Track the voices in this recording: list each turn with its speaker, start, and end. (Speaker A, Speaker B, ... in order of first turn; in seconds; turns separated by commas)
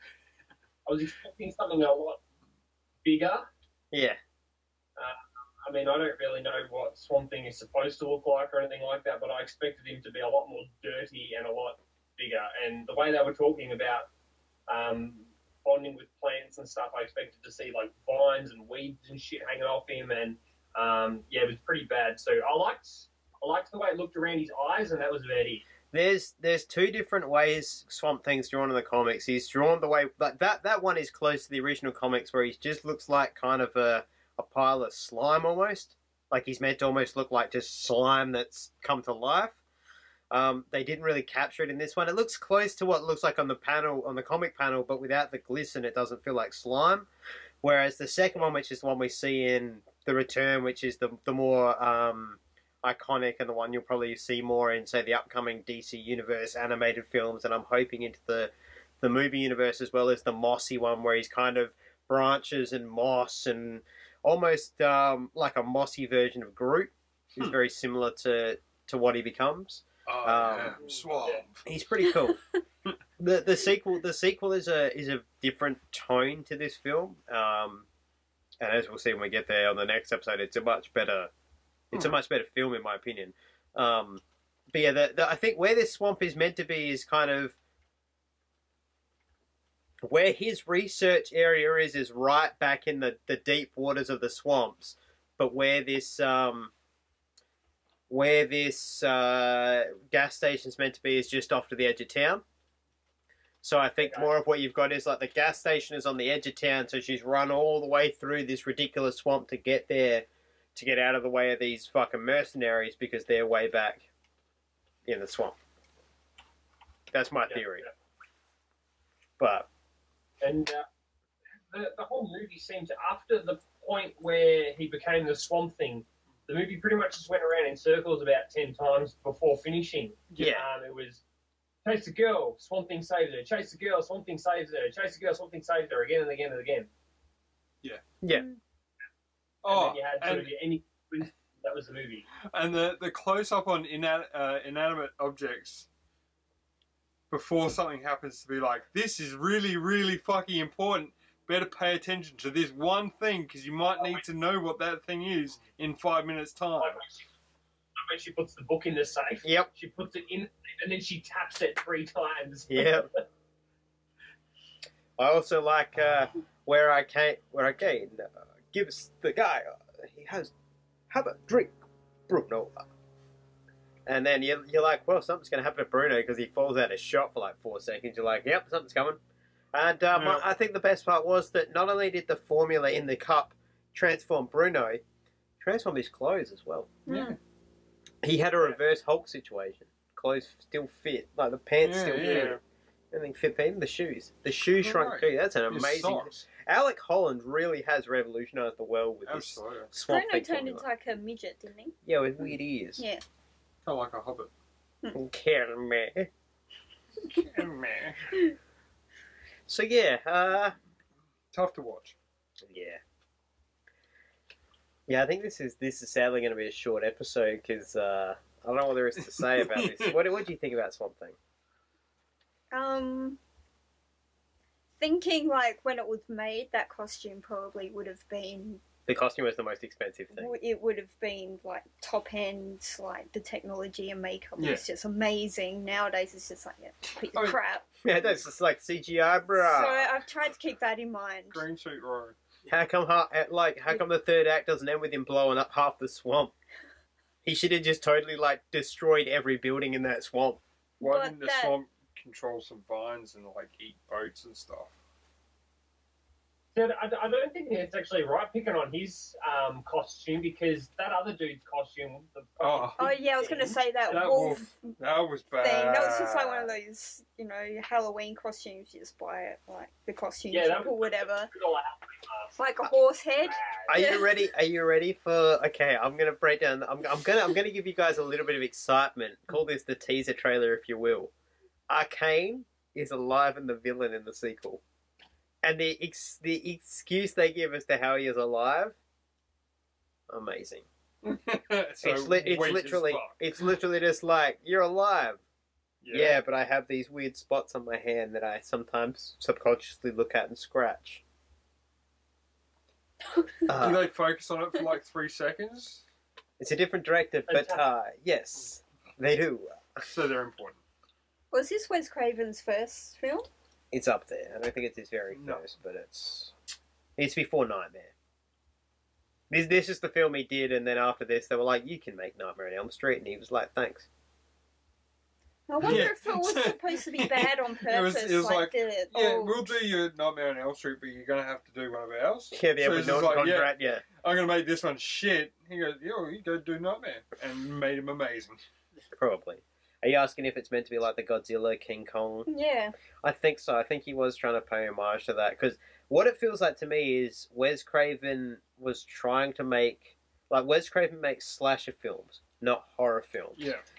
Speaker A: 0.9-2.2, Speaker A: 3.0-3.5, Speaker B: 3.9-4.2, Speaker A: 5.0-14.1, Speaker A: 14.7-25.6, Speaker B: 25.9-39.6, Speaker B: 40.3-47.1, Speaker B: 47.6-70.8, Speaker C: 70.1-71.7, Speaker B: 71.7-72.4, Speaker B: 73.2-77.9, Speaker B: 78.6-81.3, Speaker B: 81.9-87.6, Speaker B: 90.0-96.7, Speaker B: 98.1-102.4, Speaker B: 103.6-114.1, Speaker A: 104.0-104.3, Speaker B: 115.1-115.6, Speaker B: 117.1-117.9, Speaker A: 117.5-117.9, Speaker B: 119.4-119.7, Speaker A: 120.4-120.9, Speaker A: 121.7-131.2, Speaker B: 130.4-130.7, Speaker A: 131.8-136.9, Speaker C: 139.6-140.5, Speaker A: 139.7-142.3, Speaker C: 142.5-145.9, Speaker C: 147.3-157.0, Speaker A: 156.8-157.3, Speaker A: 158.0-163.1, Speaker B: 159.4-159.7, Speaker B: 162.7-163.1, Speaker B: 165.2-170.5, Speaker B: 171.1-171.8, Speaker B: 172.3-172.9, Speaker B: 174.1-179.2, Speaker B: 179.7-185.0, Speaker C: 180.1-180.5, Speaker B: 185.6-187.0, Speaker D: 187.1-187.4, Speaker C: 187.1-187.4, Speaker B: 188.2-192.6, Speaker C: 191.8-192.6, Speaker B: 193.1-200.9, Speaker C: 194.8-196.5, Speaker C: 199.2-199.9, Speaker D: 200.1-202.0, Speaker B: 202.1-203.0, Speaker D: 203.0-203.2, Speaker C: 203.8-204.5, Speaker B: 205.1-206.3, Speaker C: 207.2-208.4, Speaker B: 209.7-210.8, Speaker C: 211.5-212.2, Speaker B: 212.7-213.0, Speaker B: 215.1-221.4, Speaker C: 219.6-220.2, Speaker D: 222.7-223.4, Speaker D: 225.0-228.8, Speaker B: 229.1-230.5, Speaker D: 230.3-237.9, Speaker C: 234.6-234.9, Speaker C: 237.3-237.6, Speaker B: 238.0-240.1, Speaker D: 239.6-241.7, Speaker C: 241.5-242.4, Speaker B: 242.7-246.5, Speaker B: 247.4-250.6, Speaker D: 251.0-251.8, Speaker C: 251.0-254.9, Speaker A: 256.7-263.8, Speaker C: 262.6-263.1, Speaker D: 263.0-264.9, Speaker C: 264.1-266.8, Speaker D: 265.6-271.5, Speaker A: 270.5-272.6, Speaker D: 272.6-274.3, Speaker A: 273.4-274.2, Speaker B: 273.9-281.3, Speaker B: 281.9-284.8, Speaker B: 285.6-289.0, Speaker B: 290.3-290.9, Speaker C: 291.2-293.5, Speaker B: 292.0-295.4, Speaker C: 296.0-296.4, Speaker B: 296.1-301.2, Speaker B: 303.7-304.0, Speaker C: 303.8-306.0, Speaker B: 306.6-310.0, Speaker A: 307.5-307.9, Speaker C: 310.1-310.8, Speaker D: 311.5-313.5, Speaker B: 313.9-316.5, Speaker C: 315.3-315.6, Speaker B: 317.2-318.1, Speaker B: 319.5-324.1, Speaker D: 325.7-329.7, Speaker C: 325.8-338.6, Speaker B: 332.5-334.0, Speaker B: 339.2-342.5, Speaker D: 342.5-342.9, Speaker B: 343.2-353.6, Speaker C: 353.6-353.9